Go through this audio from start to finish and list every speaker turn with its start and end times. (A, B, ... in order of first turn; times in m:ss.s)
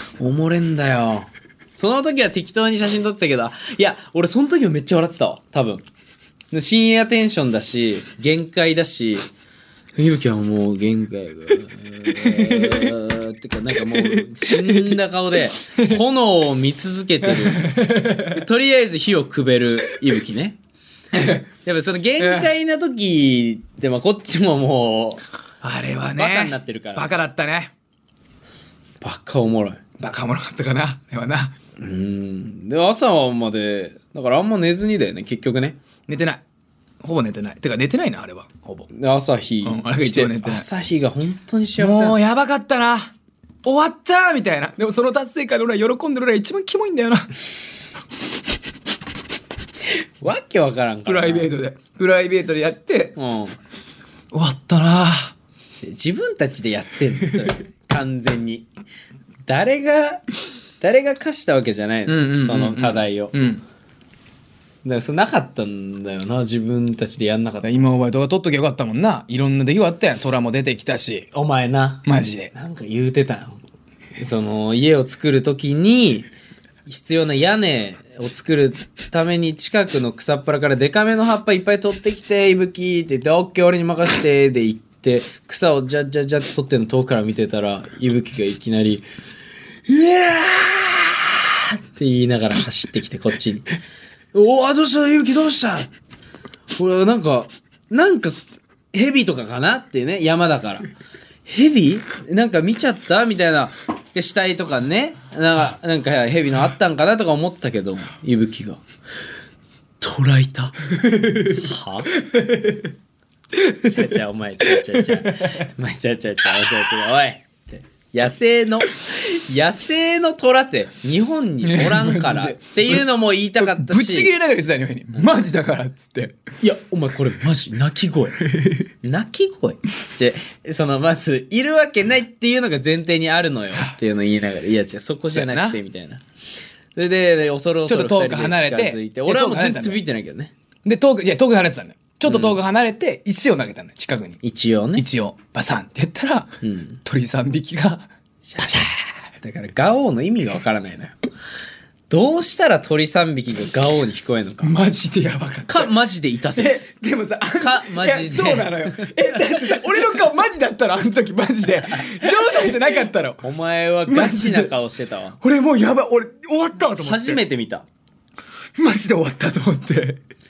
0:00.2-0:05.8 A
0:06.5-0:09.3 A
0:10.0-0:20.6 A
0:12.2-0:12.9 B
0:13.8-0:15.0 B
0:17.2-0:18.4 B
0:21.1-0:21.4 B
0:21.6-0:25.2 A
0:22.2-0:22.5 B
0:25.6-0:27.7 B
0:26.2-0:27.1 A
0:29.0-0:29.8 A
0:30.0-0:31.5 B
0:31.8-0:35.8 A
0:36.1-0:36.4 B
0:37.0-0:38.9 B
0:38.9-0:42.2 A
0:39.6-0:40.7 B
0:41.8-0:43.1 B
0:43.6-0:47.3 B
0:49.9-0:51.5 A
0:51.0-0:53.2 B
0:53.2-0:53.6 A
0:54.3-0:55.3 B
0:55.8-0:58.7 A
0:59.4-1:00.2 A
1:00.8-1:03.4 A
1:02.1-1:03.6 B
1:04.8-1:07.7 A
1:07.6-1:11.3 B
1:11.3-1:13.6 A
1:12.0-1:12.5 B
1:14.2-1:16.3 A
1:16.9-1:29.0 A
1:29.9-1:33.7 A
1:34.3-1:35.9 A
1:36.7-1:38.4 A
1:38.9-1:40.9 A
1:41.5-1:48.8 A
1:50.0-1:50.8 A
1:51.0-1:51.6 B
1:51.5-1:52.1 A
1:52.2-1:52.9 B
1:53.8-2:04.3 A
1:54.8-1:55.6 B
2:01.6-2:06.4 B
2:06.6-2:08.4 A
2:08.5-2:08.8 B
2:09.0-2:16.2 A
2:15.3-2:15.8 B
2:17.0-2:20.5 A
2:17.9-2:20.0 B
2:20.8-2:24.4 B
2:22.3-2:22.5 A
2:24.4-2:25.1 A
2:25.0-2:29.0 B
2:26.6-2:27.0 A
2:28.5-2:31.2 A
2:32.1-2:34.8 A
2:34.6-2:35.9 B
2:35.7-2:36.9 A
2:36.6-2:43.5 B
2:37.6-2:39.6 A
2:42.0-2:42.9 A
2:43.4-2:45.4 A
2:44.1-2:44.7 B
2:45.4-2:47.4 B
2:47.0-2:47.8 A
2:48.8-2:50.2 B